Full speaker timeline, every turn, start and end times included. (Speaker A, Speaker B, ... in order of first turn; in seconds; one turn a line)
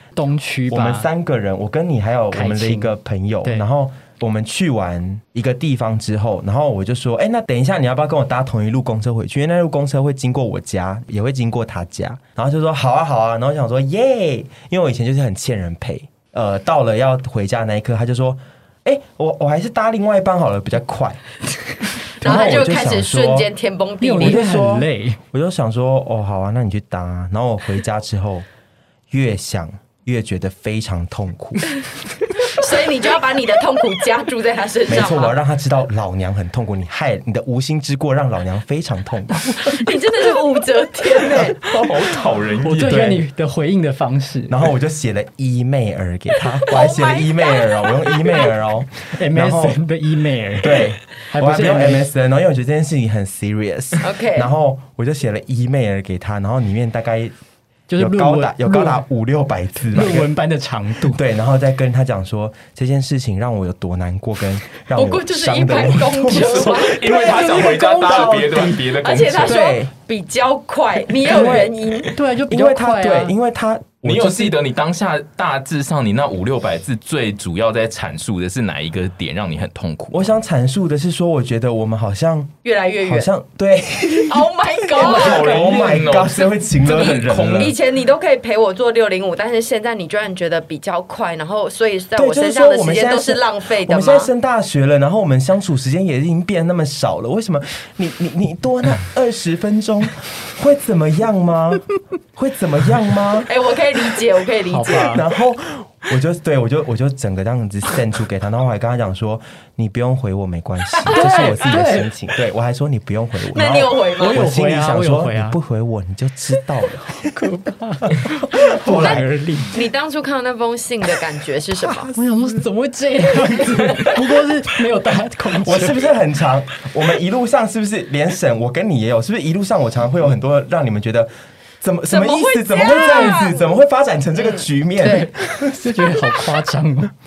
Speaker A: 0.1-1.1
Speaker B: 0.7-21.2
Speaker A: 2.3-3.6
Speaker B: 22.2-23.5
Speaker C: 22.2-24.5
Speaker A: 24.0-25.2
Speaker B: 24.2-28.4
Speaker B: 29.1-31.7
Speaker C: 32.4-35.4
Speaker B: 34.9-39.9
Speaker C: 39.6-41.6
Speaker B: 41.2-41.7
Speaker D: 41.6-43.2
Speaker A: 42.6-44.5
Speaker B: 44.5-49.8
Speaker C: 46.7-48.5
Speaker A: 49.1-52.1
Speaker B: 50.6-57.3
Speaker C: 54.0-54.5
Speaker A: 57.9-59.0
Speaker B: 58.0-60.3
Speaker A: 59.9-61.2
Speaker B: 61.0-68.8
Speaker C: 64.9-72.1
Speaker D: 66.3-69.7
Speaker B: 69.4-69.9
Speaker B: 71.2-71.8
Speaker A: 72.1-73.3
Speaker B: 72.5-74.6
Speaker D: 74.0-80.3
Speaker B: 80.1-87.8
Speaker C: 82.6-83.3
Speaker C: 84.3-85.6
Speaker D: 85.0-87.8
Speaker C: 86.9-94.3
Speaker B: 92.2-103.5
Speaker C: 103.5-105.2
Speaker A: 104.7-105.2
Speaker B: 105.1-117.5
Speaker A: 111.0-112.1
Speaker C: 111.1-111.9
Speaker C: 113.5-114.4
Speaker A: 114.2-115.6
Speaker A: 117.2-119.8
Speaker B: 118.2-119.3
Speaker C: 118.9-122.1
Speaker A: 122.1-126.0
Speaker B: 125.6-136.2
Speaker C: 132.1-133.7
Speaker A: 132.9-133.4
Speaker C: 134.4-135.3
Speaker A: 135.1-137.1